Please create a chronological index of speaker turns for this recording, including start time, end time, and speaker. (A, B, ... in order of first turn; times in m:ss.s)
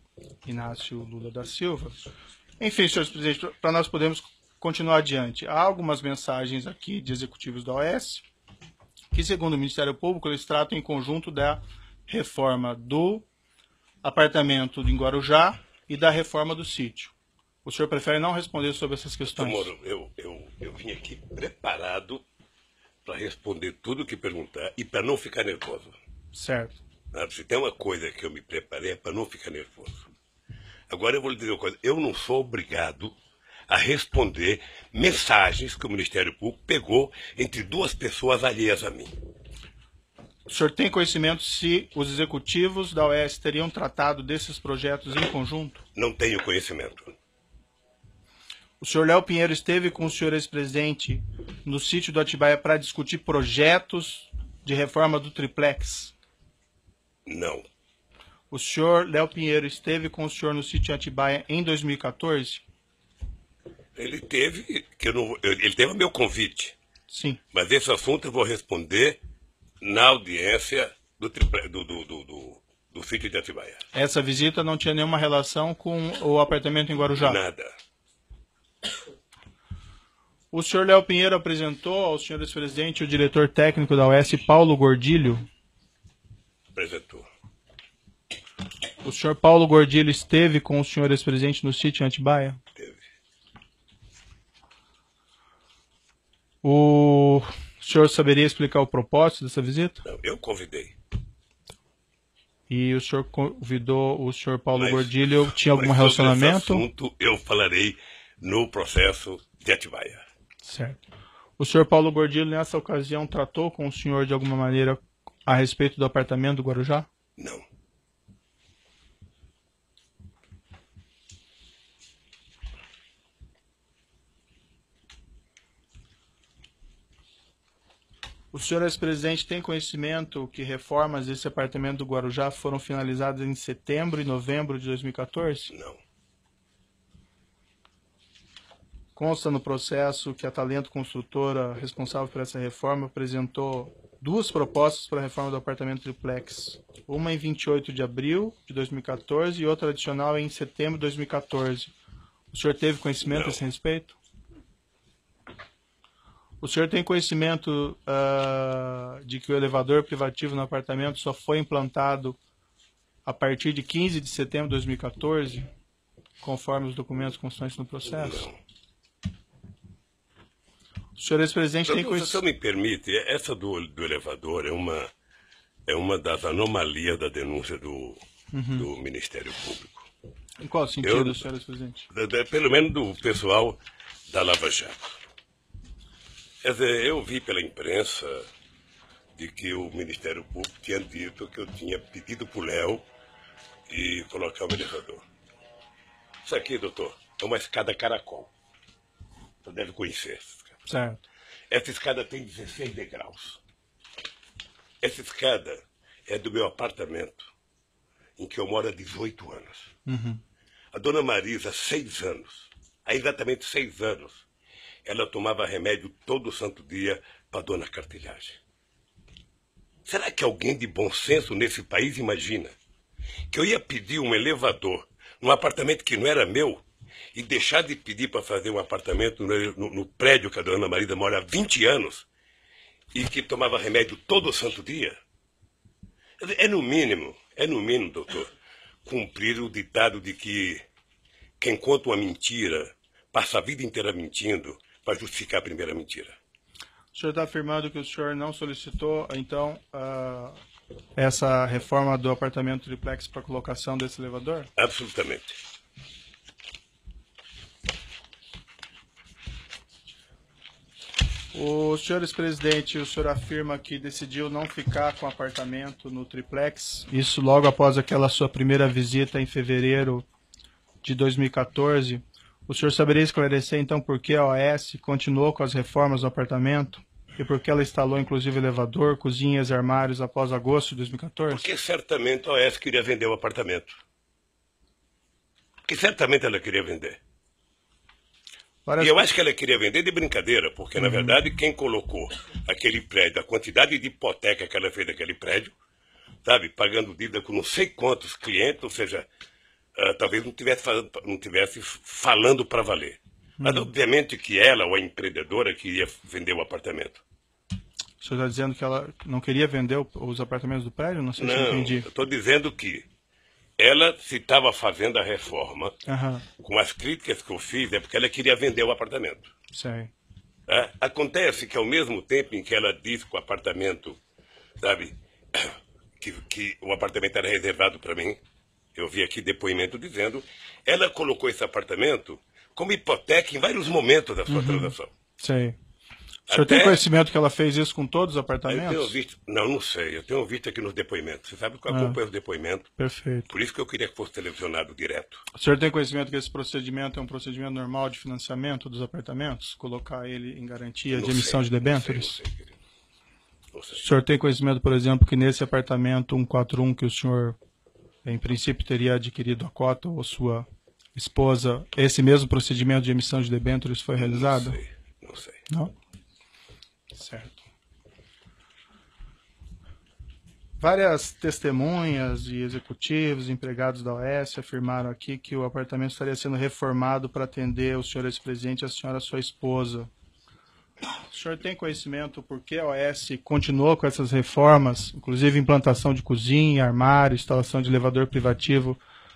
0:00.4-0:02.0 A
0:02.6-0:08.2 A
0:09.1-0:13.3 A
0:14.0-0:19.7 A
0:19.3-0:22.2 B
0:23.0-0:26.0 B
0:26.3-0:26.8 A
0:27.1-0:30.1 B
0:30.9-0:33.2 B
0:33.7-0:39.1 B
0:40.5-0:45.8 A
0:46.0-0:47.1 B
0:48.8-0:56.1 A
0:57.3-0:57.6 B
0:58.5-1:02.6 A
1:04.0-1:06.8 B
1:07.1-1:07.4 A
1:07.5-1:09.2 B
1:09.8-1:13.8 B
1:13.9-1:17.4 A
1:17.2-1:17.7 B
1:20.5-1:25.4 A
1:26.8-1:27.3 B
1:29.0-1:32.6 A
1:32.8-1:33.0 B
1:36.6-1:40.0 A
1:40.0-1:40.9 B
1:42.7-1:46.8 A
1:44.8-1:45.1 B
1:45.8-1:50.2 B
1:50.6-1:51.0 A
1:51.6-1:57.1 A
1:57.4-1:57.6 B
2:08.5-2:15.7 A
2:15.7-2:16.0 B
2:19.2-2:31.9 A
2:32.5-2:34.2 A
2:33.2-2:33.7 B
2:36.6-2:42.4 A
2:43.2-2:45.7 A
2:46.4-2:48.5 A
2:48.1-2:48.6 B
2:51.2-2:52.4 A
2:51.9-2:55.1 B
2:55.9-2:58.2 B
2:58.5-2:58.9 A
2:58.8-3:00.1 B
3:00.6-3:02.1 A
3:01.0-3:01.5 B
3:02.1-3:03.8 B
3:04.3-3:05.2 B
3:06.6-3:08.5 B
3:09.4-3:13.0 B
3:13.9-3:15.2 B
3:16.4-3:18.5 B
3:19.6-3:20.7 B
3:20.9-3:21.2 A
3:21.7-3:23.6 B
3:25.0-3:27.5 B
3:28.4-3:29.9 B
3:30.1-3:30.4 A
3:30.9-3:34.4 B
3:35.0-3:38.6 B
3:40.1-3:42.8 B
3:43.5-3:46.8 B
3:47.3-3:52.3 B
3:53.1-3:55.2 B
3:56.4-3:58.5 B
3:59.1-4:00.8 B
4:01.6-4:06.4 B
4:07.1-4:10.6 A
4:11.2-4:14.7 A
4:14.8-4:15.6 B
4:21.5-4:30.3 A
4:31.0-4:41.7 A
4:41.5-4:44.0 B
4:45.9-4:47.2 B
4:48.9-4:49.2 A
4:49.0-4:55.7 B
4:51.0-4:51.4 A
4:56.4-4:59.3 B
5:00.0-5:07.2 B
5:03.6-5:03.9 A
5:08.2-5:12.1 A
5:11.4-5:13.1 B
5:13.8-5:16.0 B
5:16.1-5:16.4 A
5:16.6-5:19.5 B
5:19.7-5:20.1 A
5:20.7-5:24.2 B
5:24.8-5:28.4 B
5:29.0-5:35.1 B
5:34.5-5:35.8 A
5:36.5-5:37.0 B
5:36.5-5:39.1 A
5:38.7-5:42.9 B
5:41.9-5:42.2 A
5:43.0-5:43.5 A
5:43.5-5:45.4 B
5:45.5-5:52.4 A
5:51.1-5:52.8 B
5:53.7-5:54.0 B
5:54.0-5:57.6 A
5:58.2-6:04.8 A
6:04.2-6:05.6 B
6:07.1-6:07.6 A
6:10.8-6:20.1 A
6:21.3-6:29.0 A